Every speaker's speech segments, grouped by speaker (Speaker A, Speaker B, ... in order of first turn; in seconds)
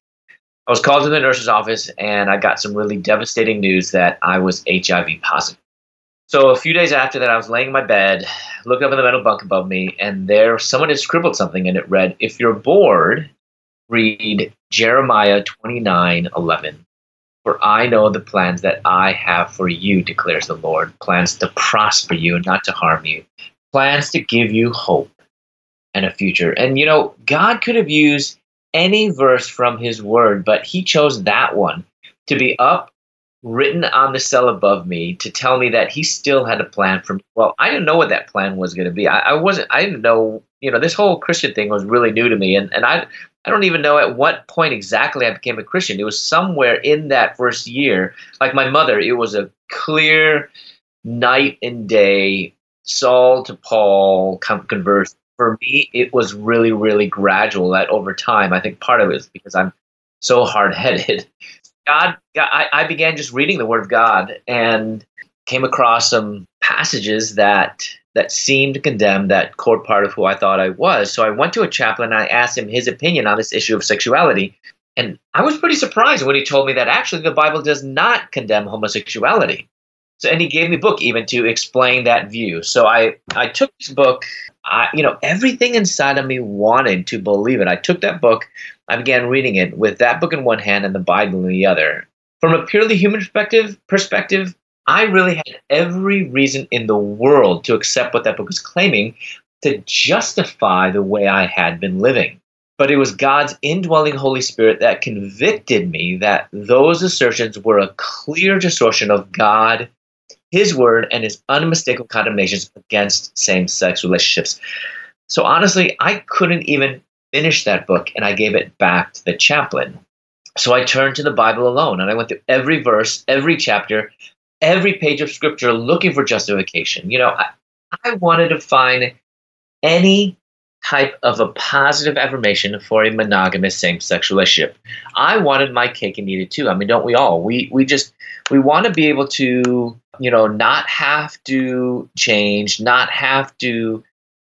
Speaker A: 0.7-5.6, 6.3-13.3, 13.9-16.8, 17.4-25.1, 25.9-32.9, 33.4-50.5, 51.0-61.3, 61.8-79.7, 80.2-109.9, 110.5-114.6, 115.3-120.0, 120.6-129.1, 129.8-144.0